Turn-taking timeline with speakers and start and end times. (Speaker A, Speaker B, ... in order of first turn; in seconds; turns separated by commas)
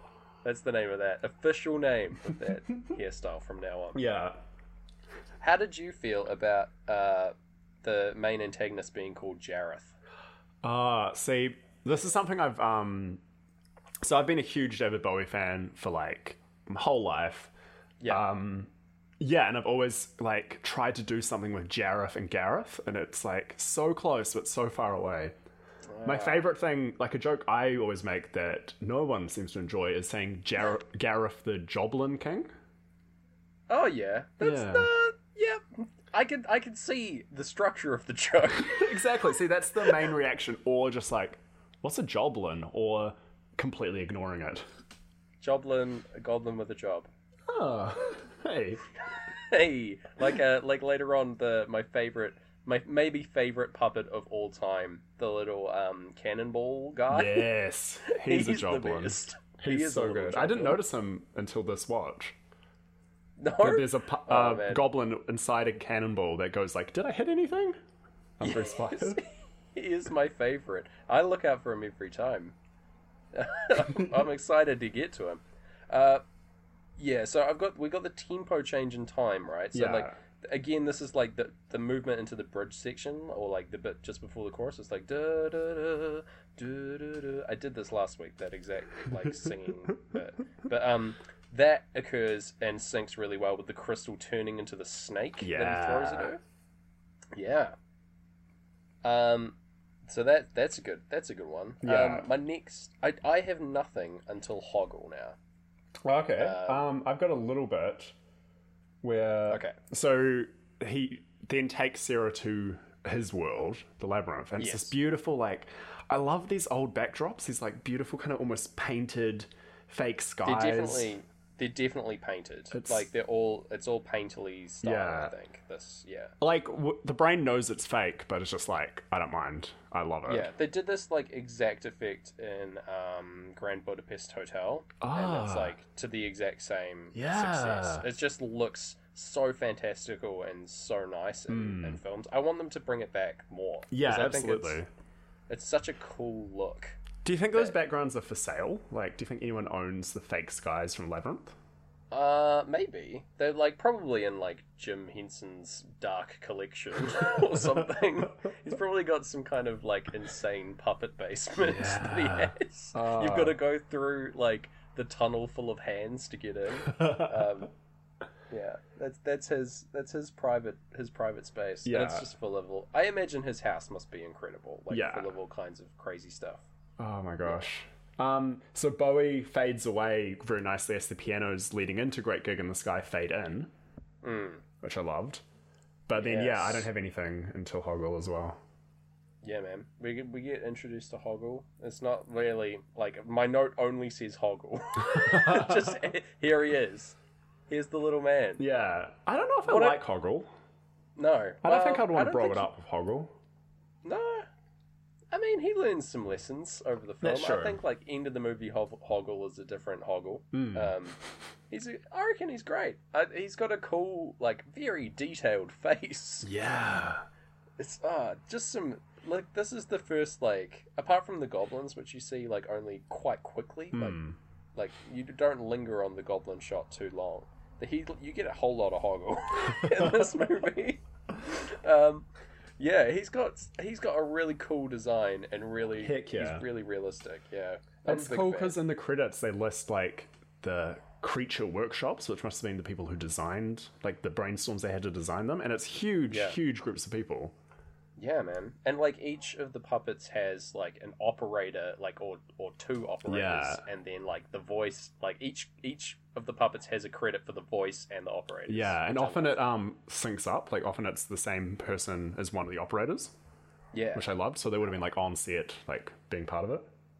Speaker A: 0.4-4.0, Speaker B: 4.0-4.4, Speaker A: 5.4-9.9, Speaker B: 10.6-13.2, Speaker B: 14.0-17.5, Speaker B: 18.1-25.3, Speaker A: 25.9-26.4, Speaker B: 26.0-32.5, Speaker A: 33.7-39.1, Speaker B: 34.4-34.9, Speaker B: 38.6-44.6, Speaker A: 45.4-47.1, Speaker B: 47.5-48.8, Speaker A: 49.3-57.5, Speaker B: 57.1-62.4, Speaker A: 58.1-60.8, Speaker A: 63.4-64.8, Speaker B: 63.6-67.8, Speaker B: 68.4-69.2, Speaker A: 68.4-72.5, Speaker A: 73.3-76.2, Speaker A: 77.0-96.4, Speaker B: 79.7-80.2, Speaker B: 95.4-96.3, Speaker A: 97.3-97.8, Speaker A: 99.0-105.4, Speaker B: 101.8-102.3, Speaker B: 106.0-108.1, Speaker A: 106.4-106.9, Speaker B: 109.0-121.1, Speaker A: 109.5-109.8, Speaker A: 114.6-114.9, Speaker A: 120.4-126.3, Speaker B: 122.7-123.0, Speaker B: 124.8-125.3, Speaker B: 126.4-130.5, Speaker A: 130.3-144.8, Speaker B: 135.0-135.8, Speaker B: 137.1-138.1, Speaker B: 141.5-142.0, Speaker B: 143.9-144.9, Speaker A: 145.5-147.0, Speaker B: 147.2-151.6, Speaker A: 152.1-167.7, Speaker B: 161.6-163.6, Speaker B: 166.8-167.4, Speaker A: 168.5-176.6, Speaker B: 171.8-172.3, Speaker B: 174.9-175.3, Speaker B: 177.0-183.7, Speaker A: 184.2-184.6, Speaker B: 184.8-185.4, Speaker B: 186.1-188.6, Speaker A: 186.2-186.9, Speaker A: 189.4-197.2, Speaker B: 195.1-196.0, Speaker A: 197.7-198.6, Speaker B: 198.6-200.5, Speaker A: 199.7-200.0, Speaker A: 201.2-202.7, Speaker B: 201.6-203.3, Speaker A: 204.0-204.5, Speaker A: 205.3-211.2, Speaker B: 207.2-207.8, Speaker B: 210.5-210.9, Speaker A: 211.7-216.5, Speaker B: 216.4-217.2, Speaker A: 217.8-224.2, Speaker B: 223.9-224.4, Speaker A: 224.8-232.3, Speaker B: 229.8-230.2, Speaker A: 232.8-238.8, Speaker B: 236.0-236.7, Speaker B: 238.1-247.5, Speaker A: 246.3-246.6, Speaker A: 248.2-259.6, Speaker B: 253.3-253.8, Speaker B: 258.7-263.3, Speaker A: 263.9-264.3, Speaker B: 264.1-266.9